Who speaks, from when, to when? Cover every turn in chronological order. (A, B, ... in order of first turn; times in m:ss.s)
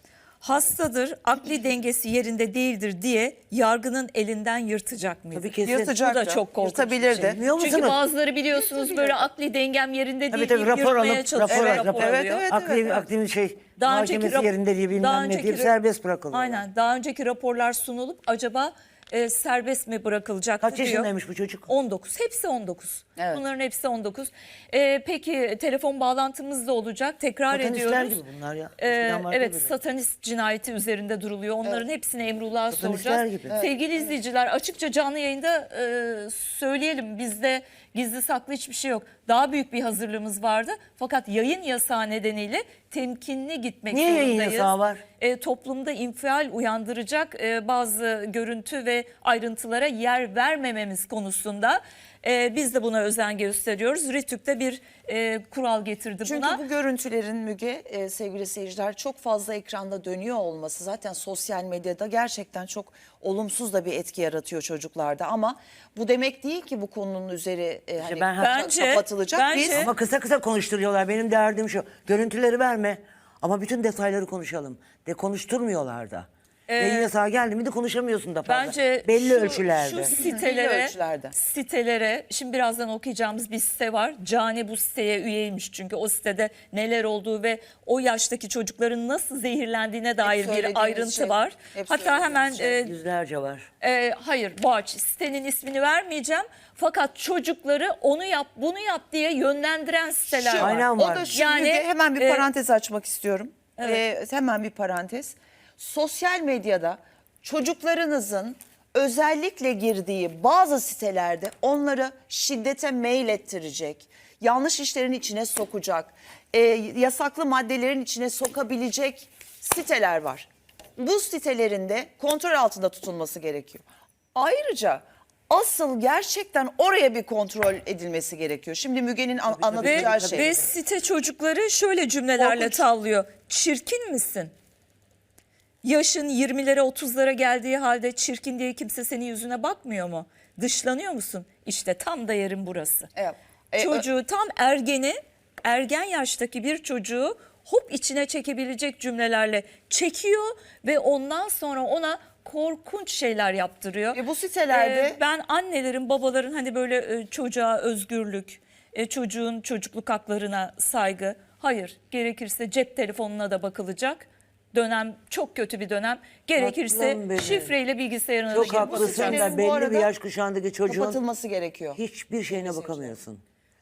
0:00.4-0:12.4 A
0:05.3-0:05.9 B
0:05.6-0:07.4 C
0:07.2-0:08.0 B
0:08.6-0:09.3 C
0:10.3-0:16.6 B
0:11.5-0:13.0 C
0:13.8-0:15.7 A
0:16.3-0:21.1 A
0:20.6-0:21.7 B
0:21.7-0:28.2 A
0:23.2-0:23.4 C
0:27.5-0:29.7 B
0:28.8-0:56.6 A
0:32.7-0:33.5 B
0:33.5-0:34.0 C
0:43.9-0:45.0 B
0:56.2-1:09.9 C
1:08.0-1:08.6 B
1:08.4-1:09.9 A
1:09.6-1:20.1 B
1:16.7-1:17.1 A
1:18.4-1:32.9 A
1:20.1-1:21.3 C
1:30.2-1:32.8 C
1:32.8-1:33.7 B
1:33.8-1:42.5 A
1:40.4-2:03.8 C
1:40.5-1:41.3 B
1:43.8-1:44.0 A
2:04.3-2:10.5 C
2:09.5-2:10.5 B
2:09.8-2:14.5 A
2:12.4-2:12.8 C
2:15.8-2:23.1 A
2:23.2-2:24.0 C
2:23.8-2:34.2 A
2:34.1-2:35.2 C
2:34.7-2:49.5 A
2:46.6-2:47.7 B
2:48.5-2:50.1 C
2:48.5-2:51.2 B
2:50.8-2:53.1 C
2:51.9-2:53.4 B